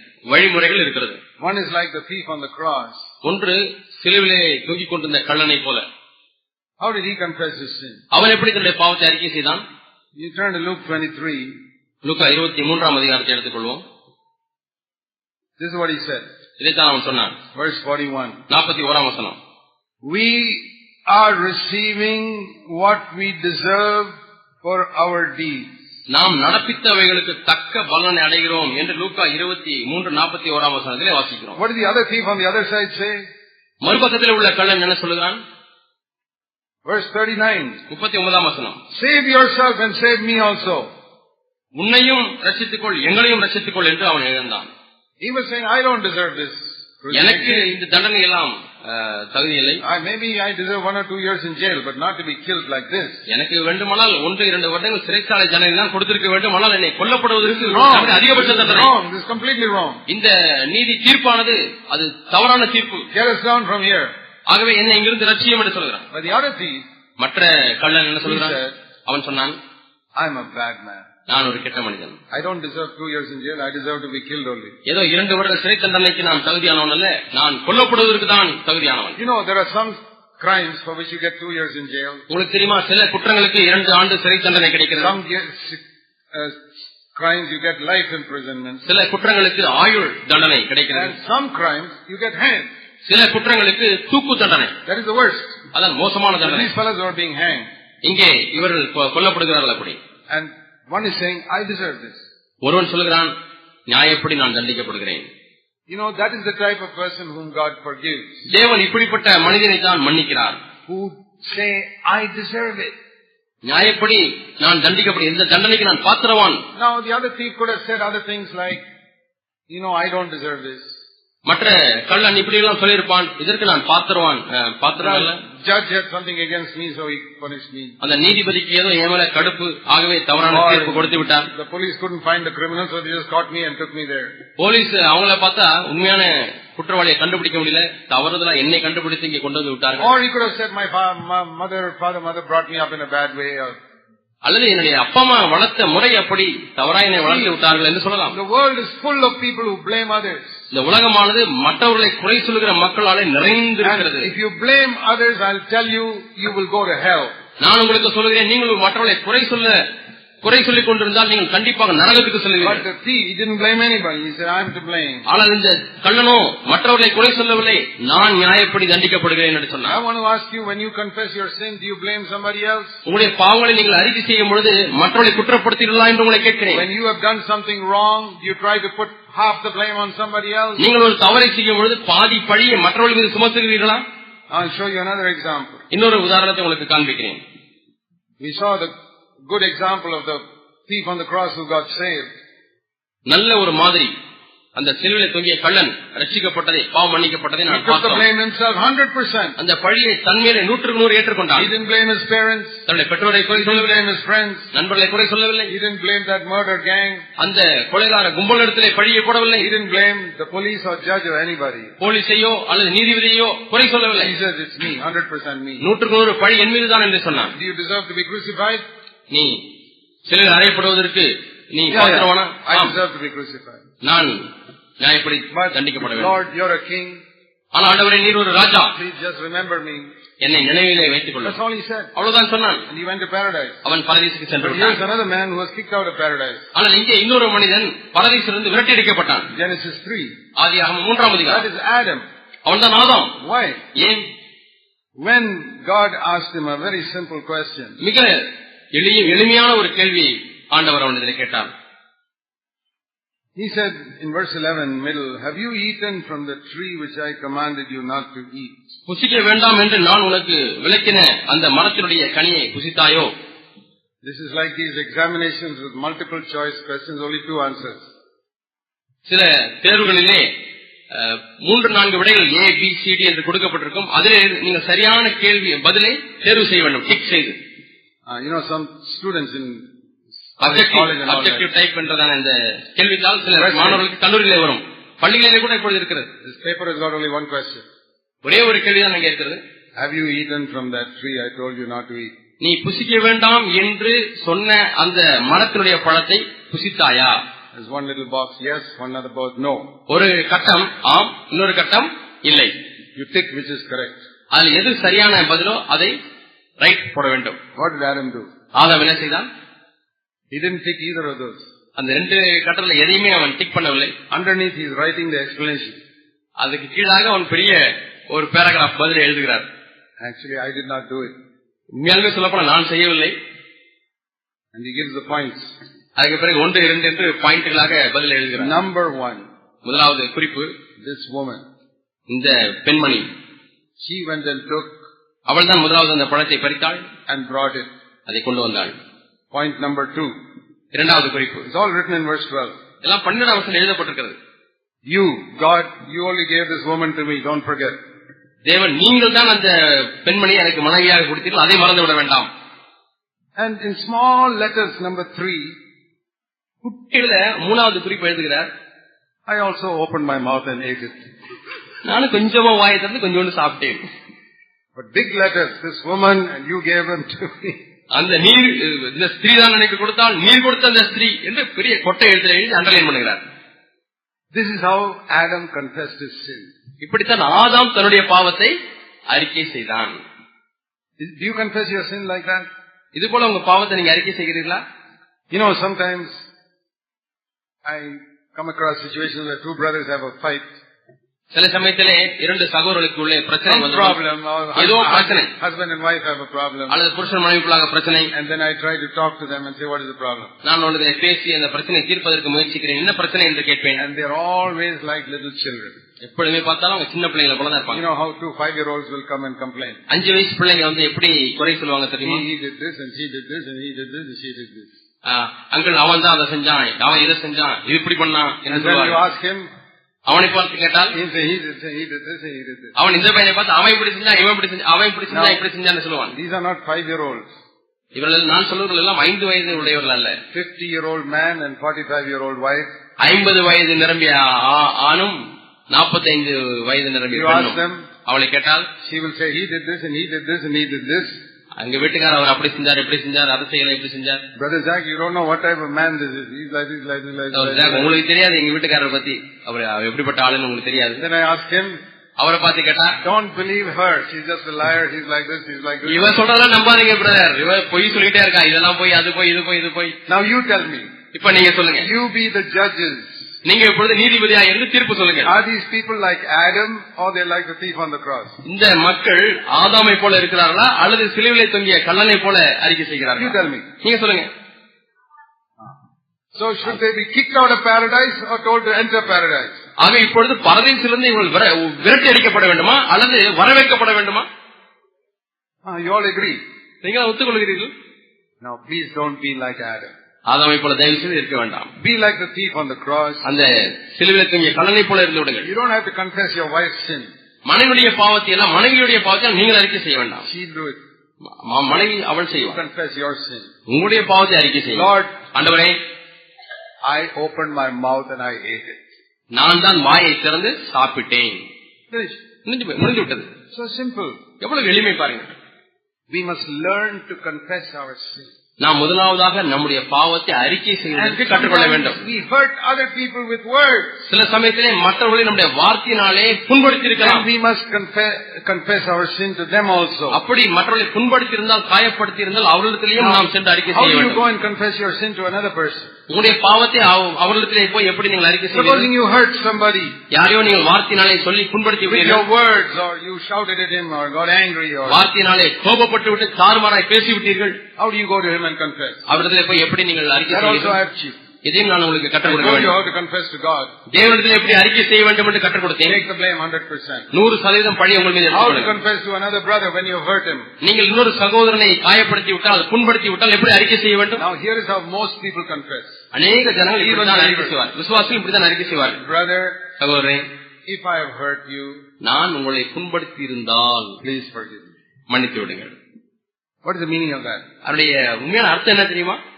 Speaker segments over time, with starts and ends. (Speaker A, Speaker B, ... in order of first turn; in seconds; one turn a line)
Speaker A: 0.3-1.2
Speaker B: 1.4-3.1
Speaker A: 3.2-5.8
Speaker B: 6.8-8.0
Speaker A: 8.1-9.6
Speaker B: 10.2-11.6
Speaker A: 12.0-13.8
Speaker B: 15.6-16.3
Speaker A: 16.6-17.4
Speaker B: 17.6-18.4
Speaker A: 18.5-19.4
Speaker B: 20.0-25.7
Speaker A: 26.1-31.6
Speaker B: 31.6-33.2
Speaker A: 33.8-35.4
Speaker B: 36.9-37.8
Speaker A: 37.9-38.8
Speaker B: 38.9-40.9
Speaker A: 41.8-44.7
Speaker B: 45.2-47.7
Speaker A: 47.1-49.8
Speaker B: 49.8-53.2
Speaker A: 53.3-58.9
Speaker B: 57.4-60.0
Speaker A: 60.1-63.1
Speaker B: 63.1-64.1
Speaker A: 64.5-66.1
Speaker B: 66.1-66.8
Speaker A: 67.2-69.6
Speaker B: 68.2-68.8
Speaker B: 70.2-71.1
Speaker A: 71.3-72.2
Speaker B: 72.3-74.8
Speaker A: 74.9-79.2
Speaker B: 79.2-82.2
Speaker A: 82.3-85.1
Speaker B: 85.0-88.8
Speaker A: 88.8-91.2
Speaker B: 90.9-92.7
Speaker A: 93.1-94.7
Speaker B: 94.8-95.6
Speaker A: 95.7-96.7
Speaker B: 96.4-97.7
Speaker A: 98.0-100.0
Speaker B: 100.3-102.2
Speaker A: 102.6-103.3
Speaker A: 103.9-105.3
Speaker B: 105.9-108.5
Speaker A: 108.5-110.6
Speaker B: 110.9-112.9
Speaker A: 113.6-116.6
Speaker B: 116.8-118.8
Speaker B: 119.7-120.9
Speaker A: 121.5-125.4
Speaker B: 125.0-128.0
Speaker A: 128.0-131.5
Speaker B: 130.4-134.3
Speaker A: 134.6-140.1
Speaker B: 140.0-143.8
Speaker A: 144.4-148.4
Speaker B: 147.2-147.6
Speaker B: 148.3-150.6
Speaker A: 150.7-154.3
Speaker B: 153.8-157.3
Speaker A: 157.6-159.8
Speaker A: 160.4-162.8
Speaker B: 162.6-165.3
Speaker A: 165.3-170.0
Speaker B: 169.9-173.0
Speaker A: 173.1-176.9
Speaker B: 176.7-180.9
Speaker A: 180.8-184.0
Speaker B: 184.5-185.8
Speaker A: 185.9-187.4
Speaker B: 188.4-188.9
Speaker B: 189.5-192.3
Speaker A: 193.3-194.1
Speaker A: 194.8-198.3
Speaker B: 197.7-199.6
Speaker A: 199.6-201.7
Speaker B: 201.6-202.8
Speaker A: 202.9-204.0
Speaker B: 203.5-204.7
Speaker A: 204.7-205.7
Speaker B: 205.7-207.3
Speaker A: 207.4-209.7
Speaker B: 209.6-211.9
Speaker A: 212.0-214.3
Speaker B: 214.1-215.8
Speaker A: 215.8-217.5
Speaker B: 217.5-218.8
Speaker A: 219.3-219.6
Speaker A: 220.3-222.9
Speaker B: 221.9-223.8
Speaker A: 224.0-224.5
Speaker A: 225.0-226.3
Speaker B: 225.5-227.2
Speaker A: 227.7-228.9
Speaker B: 228.9-230.1
Speaker A: 230.4-231.6
Speaker B: 231.4-232.1
Speaker A: 232.2-232.8
Speaker B: 232.9-233.8
Speaker A: 233.8-235.0
Speaker B: 234.6-236.7
Speaker A: 236.8-239.5
Speaker B: 239.5-240.3
Speaker A: 240.6-241.7
Speaker B: 241.5-242.2
Speaker A: 242.7-243.3
Speaker B: 243.4-243.8
Speaker A: 243.9-244.3
Speaker B: 245.2-248.0
Speaker A: 248.0-251.7
Speaker B: 253.6-258.8
Speaker A: 259.1-263.3
Speaker B: 264.2-268.0
Speaker A: 269.3-270.5
Speaker A: 271.1-277.6
Speaker B: 278.3-279.9
Speaker B: 280.6-281.7
Speaker A: 280.6-286.3
Speaker B: 283.6-284.0
Speaker B: 286.4-287.9
Speaker A: 288.4-289.6
Speaker B: 290.0-292.3
Speaker A: 292.6-297.4
Speaker B: 297.7-299.9
Speaker A: 300.1-302.7
Speaker B: 303.2-304.2
Speaker A: 304.5-306.1
Speaker A: 306.8-307.6
Speaker B: 307.8-308.5
Speaker A: 308.8-309.5
Speaker B: 310.5-311.6
Speaker A: 312.0-314.1
Speaker B: 314.3-316.0
Speaker A: 316.6-319.7
Speaker B: 320.2-321.4
Speaker A: 321.9-323.4
Speaker B: 324.7-325.7
Speaker A: 326.2-328.8
Speaker B: 328.6-329.5
Speaker A: 329.9-330.7
Speaker B: 331.0-331.6
Speaker A: 332.3-333.3
Speaker B: 334.0-334.9
Speaker A: 335.5-337.1
Speaker B: 337.3-337.9
Speaker A: 338.3-338.9
Speaker B: 339.5-340.4
Speaker A: 340.9-341.6
Speaker B: 341.6-342.8
Speaker A: 343.0-344.4
Speaker B: 345.1-348.0
Speaker A: 348.6-352.5
Speaker B: 353.6-355.8
Speaker A: 356.8-358.7
Speaker B: 359.5-361.3
Speaker A: 362.0-364.0
Speaker B: 364.9-367.8
Speaker A: 368.1-373.4
Speaker B: 374.5-376.7
Speaker A: 377.0-378.8
Speaker A: 379.3-380.2
Speaker B: 381.2-382.7
Speaker A: 383.1-384.8
Speaker B: 385.5-386.3
Speaker B: 387.9-390.7
Speaker A: 391.5-394.2
Speaker B: 393.6-397.0
Speaker A: 394.8-395.5
Speaker A: 396.9-398.3
Speaker B: 398.3-400.5
Speaker A: 400.6-404.0
Speaker B: 404.0-406.0
Speaker A: 406.2-408.0
Speaker B: 407.9-410.0
Speaker A: 410.1-412.5
Speaker B: 412.2-414.9
Speaker A: 415.2-419.2
Speaker B: 418.7-419.7
Speaker A: 420.3-421.1
Speaker B: 421.1-422.9
Speaker A: 423.0-426.4
Speaker B: 425.3-425.6
Speaker B: 426.3-427.5
Speaker A: 428.1-430.4
Speaker B: 430.5-432.9
Speaker A: 433.2-435.4
Speaker A: 435.9-438.9
Speaker B: 437.3-438.1
Speaker B: 439.0-441.4
Speaker A: 441.8-444.4
Speaker B: 444.6-448.1
Speaker A: 447.5-451.2
Speaker B: 451.2-452.0
Speaker A: 452.4-453.2
Speaker B: 453.2-456.3
Speaker A: 456.1-460.2
Speaker B: 460.3-461.1
Speaker A: 461.3-462.1
Speaker B: 462.0-463.3
Speaker A: 463.6-465.5
Speaker B: 465.4-468.6
Speaker A: 468.6-474.5
Speaker B: 473.4-473.9
Speaker B: 476.6-479.8
Speaker A: 480.0-484.5
Speaker B: 485.9-486.6
Speaker A: 487.0-487.9
Speaker B: 488.6-490.1
Speaker A: 490.5-491.9
Speaker B: 492.0-493.5
Speaker A: 493.4-495.7
Speaker B: 495.6-497.3
Speaker A: 497.7-500.4
Speaker B: 500.4-501.0
Speaker A: 501.5-502.8
Speaker B: 502.6-503.7
Speaker A: 503.9-506.0
Speaker B: 504.9-505.4
Speaker B: 507.0-509.0
Speaker A: 509.5-511.6
Speaker B: 512.1-512.4
Speaker A: 512.6-513.5
Speaker B: 513.7-514.4
Speaker A: 514.6-515.5
Speaker B: 516.3-518.5
Speaker A: 518.8-522.2
Speaker B: 521.1-524.2
Speaker A: 524.3-527.5
Speaker B: 527.2-530.4
Speaker A: 530.3-534.4
Speaker B: 533.2-536.1
Speaker A: 536.3-539.1
Speaker B: 538.7-540.2
Speaker A: 540.3-542.5
Speaker B: 542.1-545.2
Speaker A: 545.1-547.8
Speaker B: 548.0-549.2
Speaker A: 549.3-551.0
Speaker B: 550.5-551.4
Speaker A: 551.6-553.0
Speaker B: 552.4-553.9
Speaker A: 554.1-556.2
Speaker B: 556.0-557.3
Speaker A: 557.3-558.9
Speaker B: 558.5-560.7
Speaker A: 560.8-564.4
Speaker B: 564.4-567.8
Speaker A: 566.3-569.2
Speaker B: 569.2-569.8
Speaker A: 570.0-570.5
Speaker B: 570.9-572.0
Speaker A: 572.2-574.2
Speaker B: 574.2-574.9
Speaker A: 575.3-575.9
Speaker B: 576.8-577.6
Speaker A: 577.8-579.4